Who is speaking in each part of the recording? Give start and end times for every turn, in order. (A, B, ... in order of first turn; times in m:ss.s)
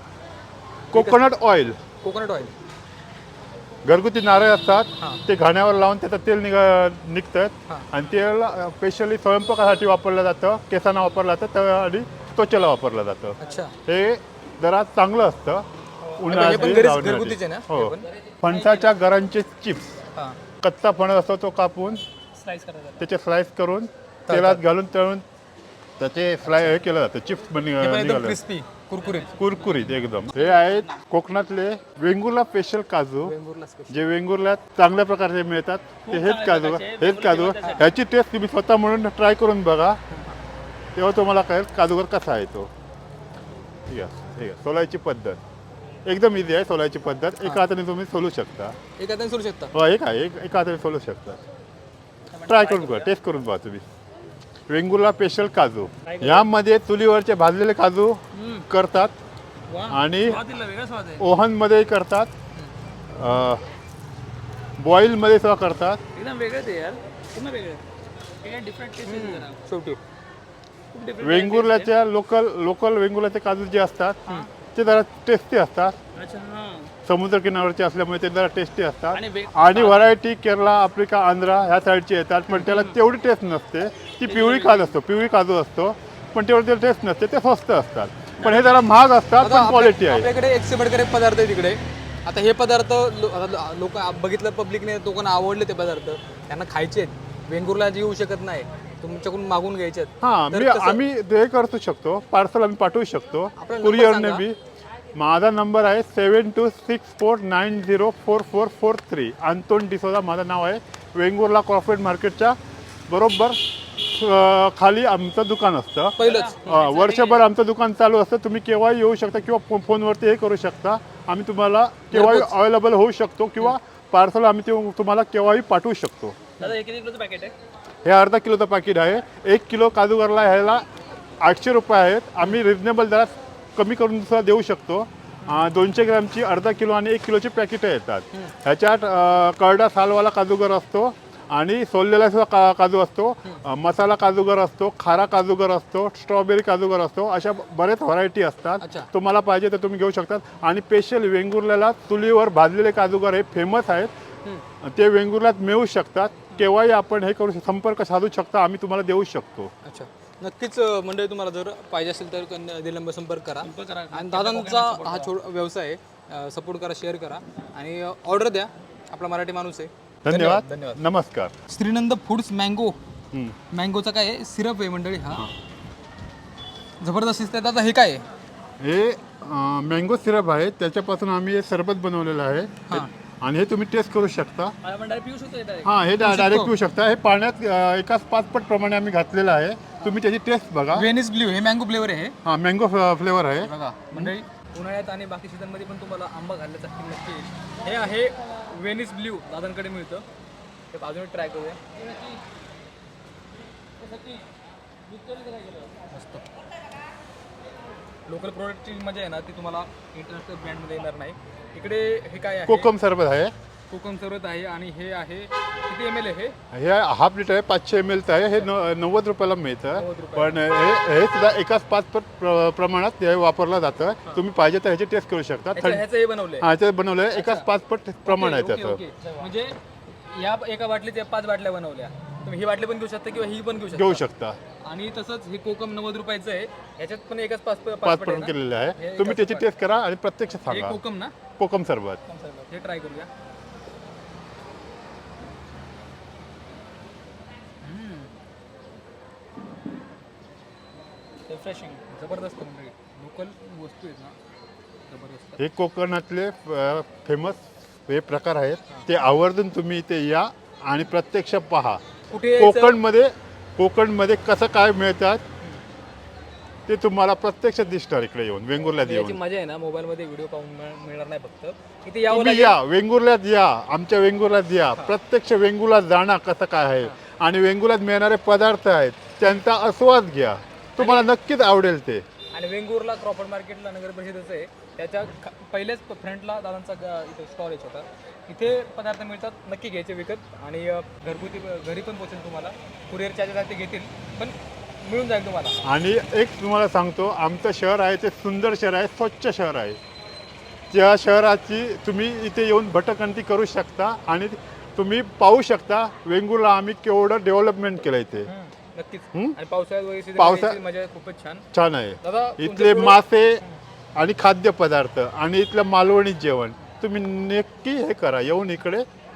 0:00.9-0:01.3 A
0:00.9-0:01.8 B
0:02.0-0:02.5 A
0:03.8-0:15.6 B
0:13.4-0:13.7 A
0:16.0-0:16.9 C
0:16.2-0:20.0 B
0:16.3-0:18.1 A
0:18.4-0:18.8 C
0:20.6-0:22.0 B
0:22.4-0:23.0 C
0:23.0-0:25.2 B
0:24.3-0:24.6 A
0:26.0-0:28.4 B
0:26.4-0:26.8 A
0:27.8-0:29.4 A
0:29.0-0:29.9 C
0:29.2-0:33.3 B
0:33.2-0:34.0 A
0:33.9-0:40.0 B
0:36.1-0:37.8 C
0:37.5-0:37.9 A
0:40.1-0:40.3 A
0:41.0-0:42.7 B
0:43.9-0:45.4 B
0:46.0-0:48.8 B
0:49.0-0:49.7 A
0:49.7-0:51.4 B
0:52.3-0:53.1 C
0:52.4-0:53.8 B
0:54.7-0:59.1 B
0:56.1-0:56.4 C
0:59.7-1:01.2 C
0:59.9-1:00.4 B
1:01.2-1:02.3 B
1:03.1-1:03.6 B
1:04.8-1:06.0 B
1:06.1-1:07.8 C
1:08.4-1:09.6 C
1:09.0-1:10.0 A
1:10.9-1:11.9 C
1:11.2-1:14.2 B
1:14.7-1:16.0 B
1:16.2-1:16.9 C
1:17.0-1:30.3 B
1:19.1-1:20.1 C
1:22.5-1:23.0 A
1:24.3-1:24.8 C
1:28.4-1:28.7 C
1:29.4-1:41.0 A
1:40.2-1:44.6 B
1:43.6-1:44.4 A
1:45.1-1:52.6 B
1:53.1-2:06.4 B
1:56.2-1:56.9 A
1:56.2-1:57.4 C
2:02.1-2:02.5 A
2:06.6-2:07.5 C
2:08.0-2:10.8 B
2:11.4-2:34.1 B
2:28.8-2:29.1 A
2:34.8-2:39.7 B
2:39.8-2:51.0 A
2:43.6-2:45.3 C
2:50.2-2:51.5 B
2:51.7-2:53.0 A
2:53.7-2:55.4 A
2:57.0-2:58.2 A
2:58.8-3:04.7 B
3:04.8-3:05.9 C
3:05.8-3:11.1 B
3:06.1-3:06.7 A
3:10.9-3:12.4 A
3:12.4-3:14.3 B
3:13.6-3:20.2 A
3:20.9-3:21.8 A
3:24.0-3:24.4 C
3:25.1-3:26.0 C
3:26.1-3:26.4 A
3:28.3-3:32.9 A
3:32.6-3:33.5 B
3:33.9-3:36.5 A
3:36.7-3:46.0 B
3:39.9-3:40.6 A
3:45.7-3:46.7 A
3:46.6-3:49.0 B
3:47.3-3:47.7 A
3:48.2-3:54.2 A
3:53.9-3:54.6 B
3:54.8-3:59.7 A
3:58.0-4:01.0 B
4:00.6-4:01.3 A
4:01.6-4:02.2 B
4:02.3-4:03.3 A
4:07.8-4:08.3 A
4:11.5-4:14.4 A
4:15.1-4:15.6 A
4:15.6-4:22.0 B
4:22.3-4:23.0 A
4:22.5-4:25.4 B
4:26.9-4:29.4 B
4:28.8-4:32.8 A
4:32.3-4:42.2 B
4:41.0-4:41.3 A
4:42.5-4:55.9 A
4:55.8-5:00.0 B
5:00.9-5:08.5 B
5:08.4-5:11.6 A
5:10.4-5:10.8 B
5:11.7-5:13.6 B
5:12.2-5:13.8 A
5:14.1-5:19.0 B